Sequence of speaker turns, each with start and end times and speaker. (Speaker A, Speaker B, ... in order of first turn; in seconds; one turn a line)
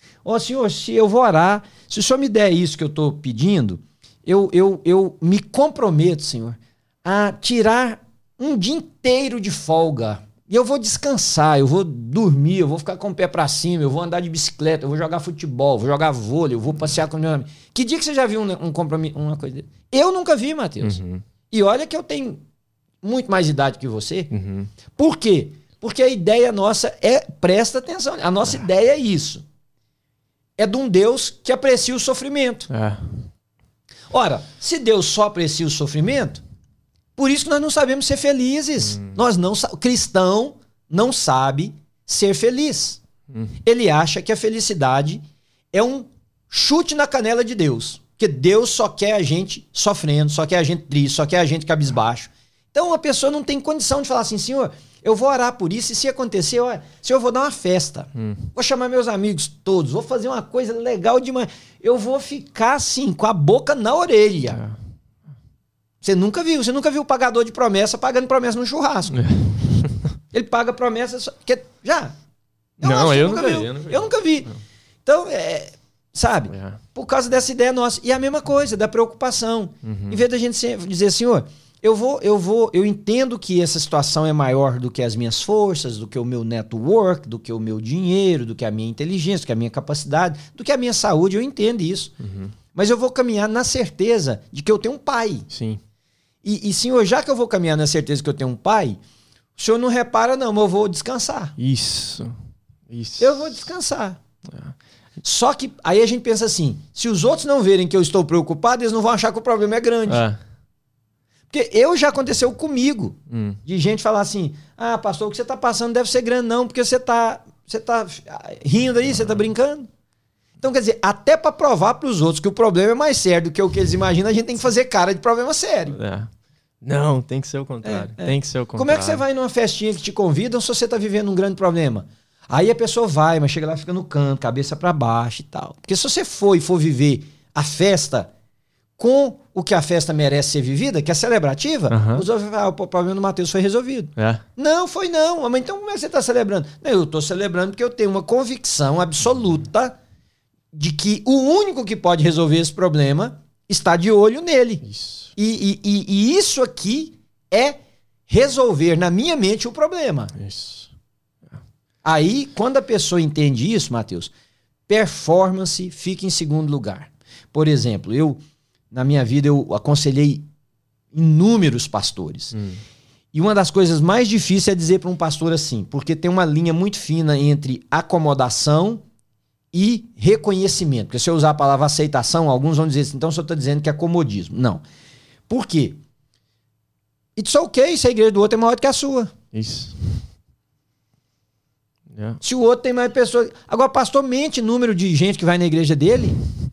Speaker A: 0.2-21.0
Speaker B: 20.8-21.2
Speaker A: 21.5-22.4
Speaker A: 23.0-24.3
Speaker B: 24.3-24.7
Speaker A: 24.9-29.4
Speaker A: 30.6-32.7
Speaker B: 32.7-33.2
Speaker A: 34.1-36.4
Speaker A: 37.2-43.0
Speaker B: 38.8-39.2
Speaker A: 43.6-45.2
Speaker A: 45.7-64.6
Speaker B: 58.1-58.5
Speaker B: 64.5-64.8
Speaker A: 66.0-69.2
Speaker B: 69.1-70.0
Speaker A: 70.3-72.1
Speaker A: 72.8-74.5
Speaker B: 72.8-74.1
Speaker A: 75.0-92.1
Speaker B: 76.5-76.8
Speaker B: 79.8-80.2
Speaker B: 92.2-92.5
Speaker A: 92.7-95.5
Speaker B: 95.5-95.8
Speaker A: 96.4-99.0
Speaker A: 99.6-101.5
Speaker B: 101.6-102.3
Speaker B: 102.9-103.6
Speaker A: 103.2-104.2
Speaker B: 104.5-104.7
Speaker A: 105.2-110.2
Speaker B: 110.1-110.4
Speaker A: 111.5-119.9
Speaker B: 113.3-113.6
Speaker A: 120.6-126.0
Speaker B: 125.9-126.3
Speaker B: 126.8-129.2
Speaker A: 127.8-138.3
Speaker A: 139.0-150.0
Speaker B: 141.9-142.2
Speaker B: 144.2-144.4
Speaker A: 150.7-154.8
Speaker B: 154.9-155.3
Speaker A: 155.3-160.3
Speaker B: 160.3-160.9
Speaker A: 162.0-164.3
Speaker A: 164.9-168.4
Speaker A: 168.9-170.4
Speaker A: 171.1-172.6
Speaker B: 172.5-172.8
Speaker A: 173.3-179.0
Speaker A: 179.7-184.8
Speaker A: 185.5-186.0
Speaker A: 187.3-189.3
Speaker B: 189.5-190.2
Speaker B: 192.1-192.4
Speaker A: 192.4-196.4